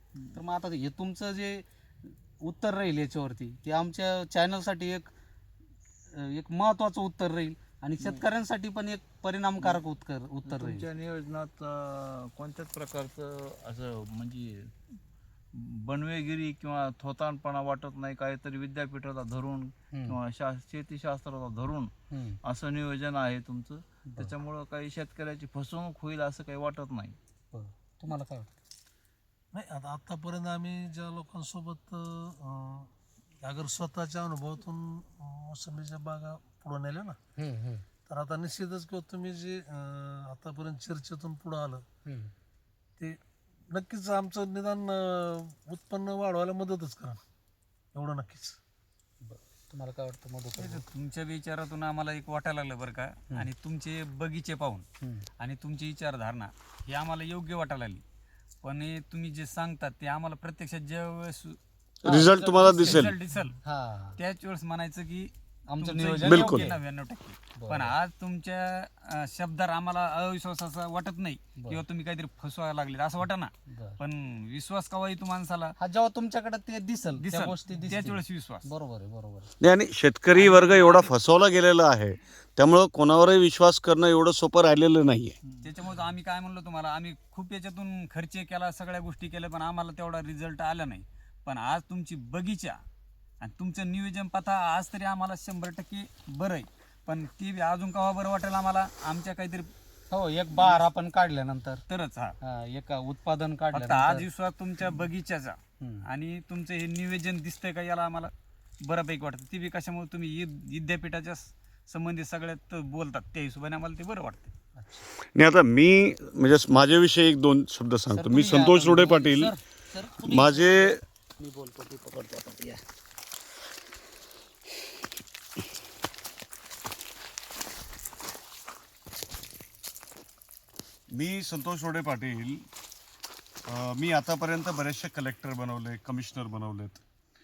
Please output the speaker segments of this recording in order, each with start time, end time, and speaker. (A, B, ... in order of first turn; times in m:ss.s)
0:00.3-0:05.1 A
0:06.1-0:10.9 A
0:10.4-0:15.0 B
0:15.5-0:21.9 B
0:19.9-0:20.2 A
0:22.1-0:22.4 A
0:22.4-0:27.2 B
0:27.5-0:28.5 A
0:29.5-0:37.2 C
0:37.4-0:37.9 A
0:38.1-0:41.9 C
0:42.1-0:42.3 A
0:43.0-0:47.2 C
0:47.9-0:48.6 C
0:49.2-0:50.8 A
0:50.6-0:54.9 D
0:55.0-0:55.3 A
0:55.4-0:58.0 D
0:58.6-1:01.6 D
1:02.0-1:02.9 A
1:02.0-1:03.2 E
1:02.4-1:03.6 D
1:03.3-1:03.6 C
1:03.6-1:04.2 A
1:04.2-1:15.7 D
1:05.7-1:06.8 A
1:06.2-1:06.7 E
1:07.6-1:07.9 A
1:13.7-1:14.0 A
1:15.8-1:19.5 A
1:17.2-1:18.7 D
1:19.6-1:25.4 E
1:20.3-1:21.1 D
1:25.5-1:25.9 B
1:25.6-1:32.8 D
1:33.4-1:39.7 D
1:40.1-1:41.8 A
1:40.5-1:40.8 D
1:41.9-1:42.4 D
1:42.4-1:44.3 A
1:43.7-1:48.3 D
1:45.8-1:46.1 A
1:48.8-1:54.5 D
1:54.8-1:55.1 A
1:55.4-1:59.5 E
1:58.1-2:02.8 A
2:00.2-2:01.0 E
2:11.1-2:12.7 E
2:13.7-2:17.0 E